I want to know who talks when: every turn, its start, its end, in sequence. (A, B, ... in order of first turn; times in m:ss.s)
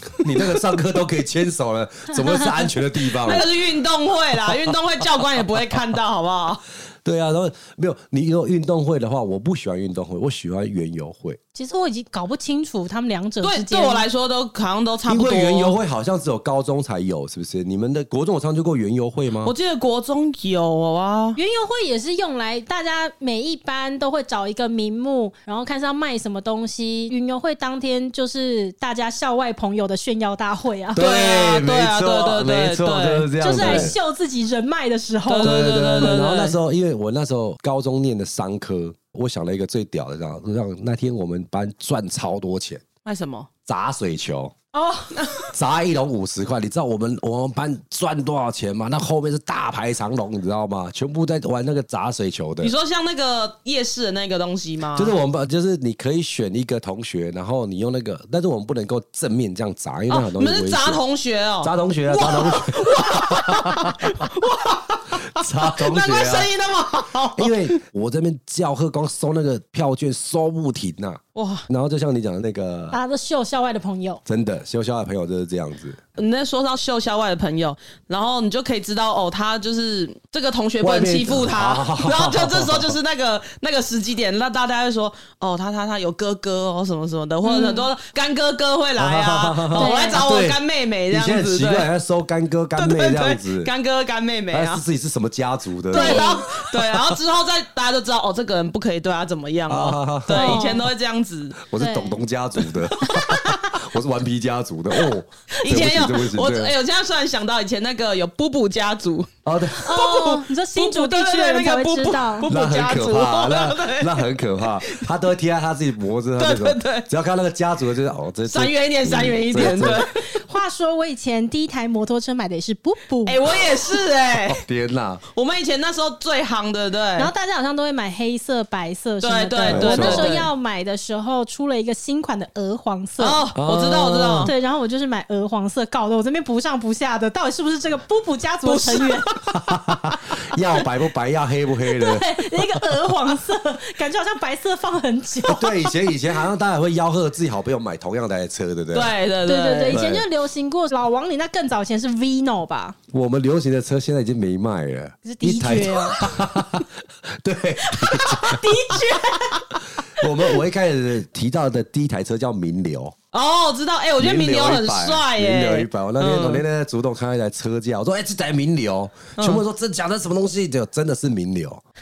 0:00.2-0:03.5 A
0:03.2-0:06.6 B
0:04.5-0:04.7 A
0:07.0-0:11.4 A
0:11.6-0:14.0 C
0:13.4-0:15.8 B
0:15.1-0:19.5 A
0:19.4-0:21.4 B
0:21.4-0:31.0 C
0:30.9-0:34.0 A
0:31.0-0:33.9 B
0:33.4-0:36.1 C
0:35.3-0:36.6 B
0:35.4-0:42.8 A
0:43.0-0:43.5 B
0:43.7-0:44.5 A
0:44.7-0:45.4 C
0:45.2-0:45.4 B
0:45.5-0:52.7 A
0:52.6-0:55.1 B
0:55.0-1:01.0 A
1:00.1-1:07.8 B
1:01.6-1:04.3 A
1:05.2-1:06.5 A
1:07.4-1:13.0 A
1:11.4-1:11.7 B
1:12.9-1:14.2 C
1:14.3-1:16.0 A
1:16.2-1:31.9 B
1:20.8-1:23.0 A
1:27.4-1:27.9 C
1:29.0-1:33.7 A
1:29.7-1:30.2 C
1:32.8-1:34.8 B
1:34.5-1:37.2 A
1:35.9-1:36.5 C
1:35.9-1:41.7 B
1:39.7-1:40.8 A
1:40.3-1:40.9 C
1:41.7-1:46.7 A
1:41.8-1:42.2 C
1:42.6-1:43.6 B
1:45.6-1:49.3 B
1:49.5-1:49.9 A
1:49.8-1:52.5 C
1:49.8-1:55.1 B
1:52.5-2:00.1 A
1:56.4-1:57.1 B
1:58.5-2:00.2 B
1:59.6-2:03.6 C
2:03.3-2:04.6 B
2:04.3-2:05.2 A
2:05.3-2:07.3 B
2:07.2-2:13.4 C
2:09.2-2:10.5 B
2:09.6-2:10.4 A
2:13.2-2:14.5 B
2:13.6-2:14.5 A
2:14.4-2:19.3 C
2:18.6-2:19.2 B
2:19.5-2:22.4 A
2:21.9-2:25.9 C
2:25.4-2:29.2 A
2:28.9-2:30.1 B
2:29.5-2:33.0 C
2:29.9-2:30.3 A
2:33.1-2:38.6 A
2:35.2-2:36.4 C
2:37.9-2:39.6 C
2:38.1-2:39.6 B
2:39.8-2:43.2 A
2:43.3-2:46.6 B
2:44.2-2:51.8 A
2:49.4-2:49.6 B